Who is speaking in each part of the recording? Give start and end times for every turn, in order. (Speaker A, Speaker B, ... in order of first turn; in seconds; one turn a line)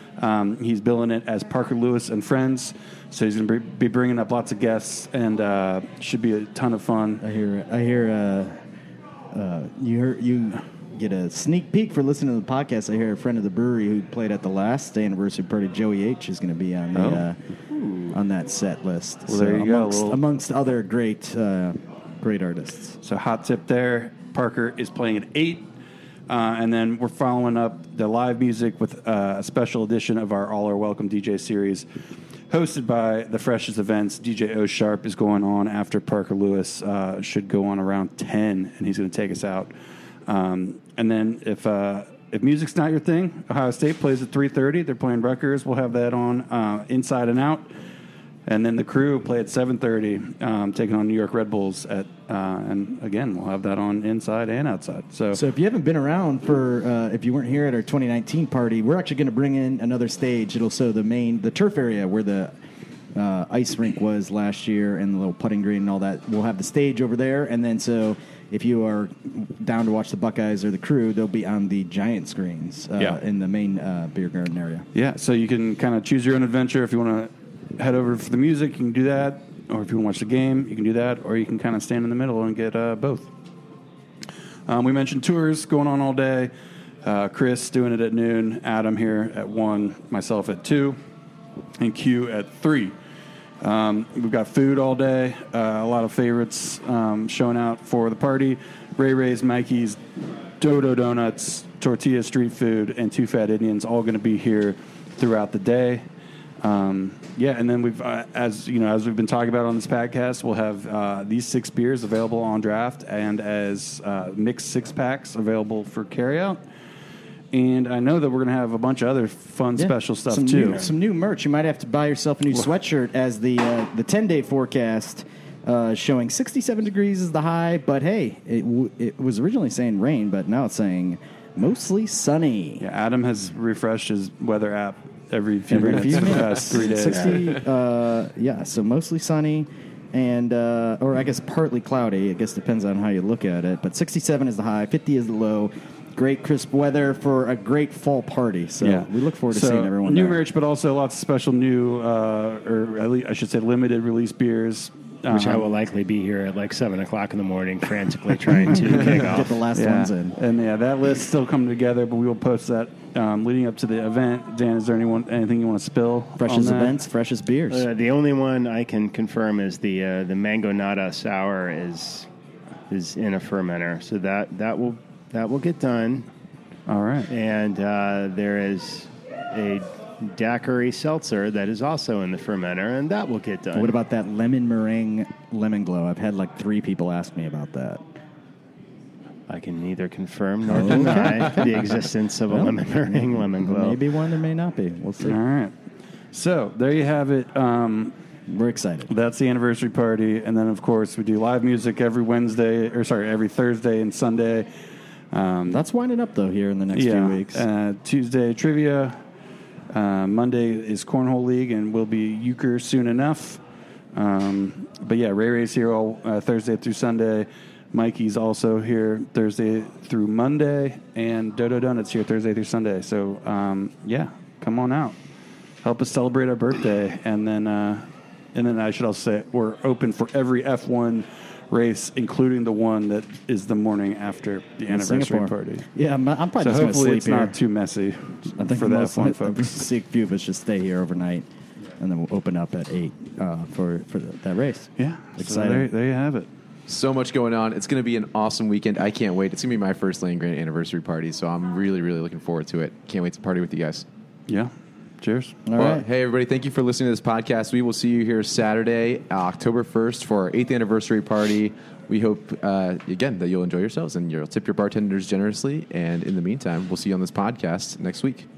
Speaker A: 0.2-7.2
Speaker B: 7.2-8.6
Speaker B: 9.3-17.4
Speaker A: 16.9-18.1
Speaker B: 18.1-23.0
Speaker A: 19.3-20.2
Speaker A: 23.0-25.7
Speaker A: 26.3-31.9
Speaker A: 32.5-39.7
Speaker A: 40.2-47.7
Speaker A: 48.5-55.4
Speaker B: 55.3-62.5
Speaker B: 63.1-74.9
Speaker A: 74.9-83.3
Speaker A: 84.7-86.5
Speaker A: 87.0-91.0
Speaker A: 91.8-92.9
Speaker A: 93.6-100.0
Speaker A: 100.6-106.0
Speaker A: 106.6-116.6
Speaker A: 117.5-120.8
Speaker B: 119.8-132.8
Speaker A: 132.8-137.5
Speaker B: 135.7-150.4
Speaker A: 148.8-155.7
Speaker C: 155.3-159.6
Speaker B: 158.6-160.3
Speaker A: 159.7-167.0
Speaker B: 166.4-167.9
Speaker C: 167.7-172.3
Speaker C: 172.9-176.2
Speaker A: 176.9-177.3
Speaker C: 177.3-183.9
Speaker B: 183.7-188.0
Speaker C: 189.5-194.0
Speaker B: 190.7-191.7
Speaker B: 192.5-195.4
Speaker A: 195.2-195.8
Speaker A: 196.3-198.1
Speaker B: 198.5-199.1
Speaker A: 199.1-204.7
Speaker A: 205.3-205.8
Speaker B: 205.7-207.6
Speaker A: 206.9-209.2
Speaker A: 209.9-213.6
Speaker A: 214.1-225.2
Speaker A: 225.8-235.9
Speaker B: 234.9-237.6
Speaker A: 236.6-239.9
Speaker B: 238.6-241.4
Speaker B: 242.0-245.9
Speaker A: 245.0-246.5
Speaker D: 246.9-254.1
Speaker A: 254.5-255.6
Speaker B: 255.7-256.0
Speaker D: 255.8-268.5